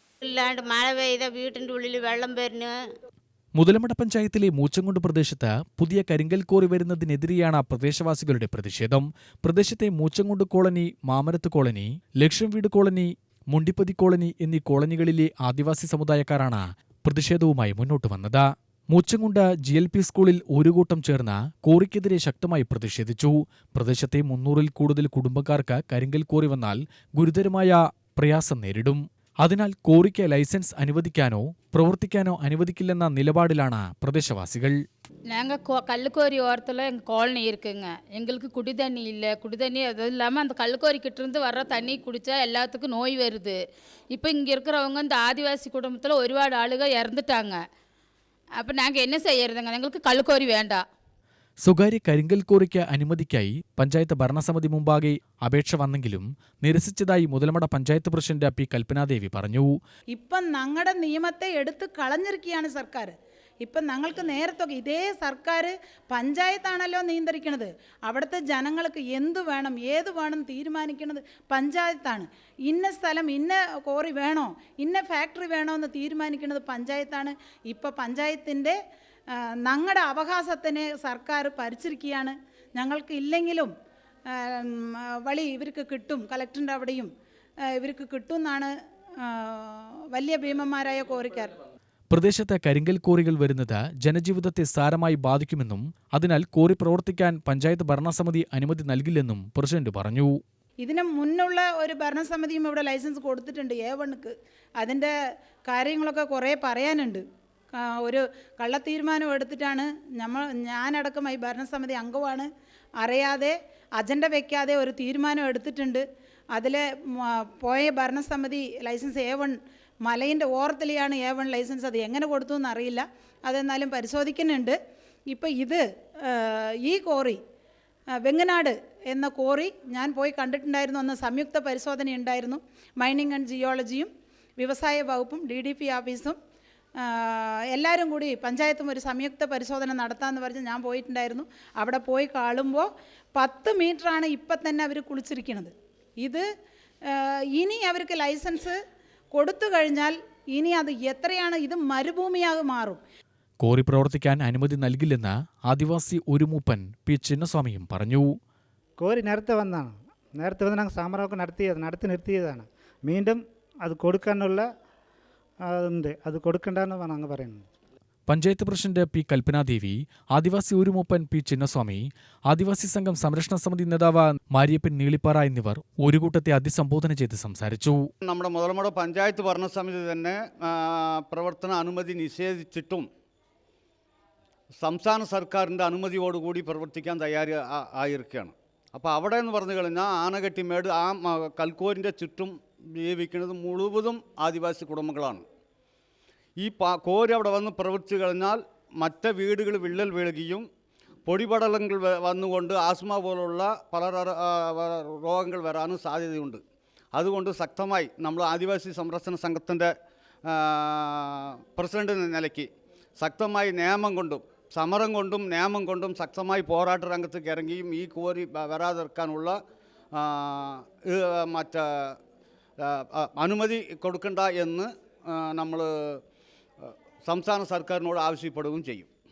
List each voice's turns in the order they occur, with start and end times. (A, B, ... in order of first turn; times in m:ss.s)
0:00.2-0:02.7 A
0:03.6-0:34.8 B
0:35.3-0:43.6 C
0:44.1-0:47.6 C
0:48.6-0:50.8 C
0:51.6-0:59.7 B
1:00.1-1:18.8 D
1:19.7-1:23.7 D
1:24.3-1:27.1 D
1:27.8-1:31.6 D
1:32.1-1:40.3 B
1:40.8-1:45.1 D
1:45.7-1:47.2 D
1:47.8-1:52.5 D
1:53.0-1:56.0 D
1:56.5-2:04.8 D
2:05.3-2:07.4 D
2:08.2-2:16.4 D
2:17.0-2:26.4 D
2:27.1-2:28.8 D
2:29.3-2:33.0 D
2:33.6-2:38.4 B
2:39.0-2:44.7 E
2:45.7-2:47.7 E
2:48.3-2:58.0 B
2:58.2-3:03.1 F
3:04.8-3:15.4 F
3:16.6-3:20.7 F
3:21.3-3:26.6 F
3:27.2-3:29.9 F
3:30.5-3:39.6 F
3:40.1-3:42.2 F
3:42.8-3:46.2 F
3:46.8-3:49.1 F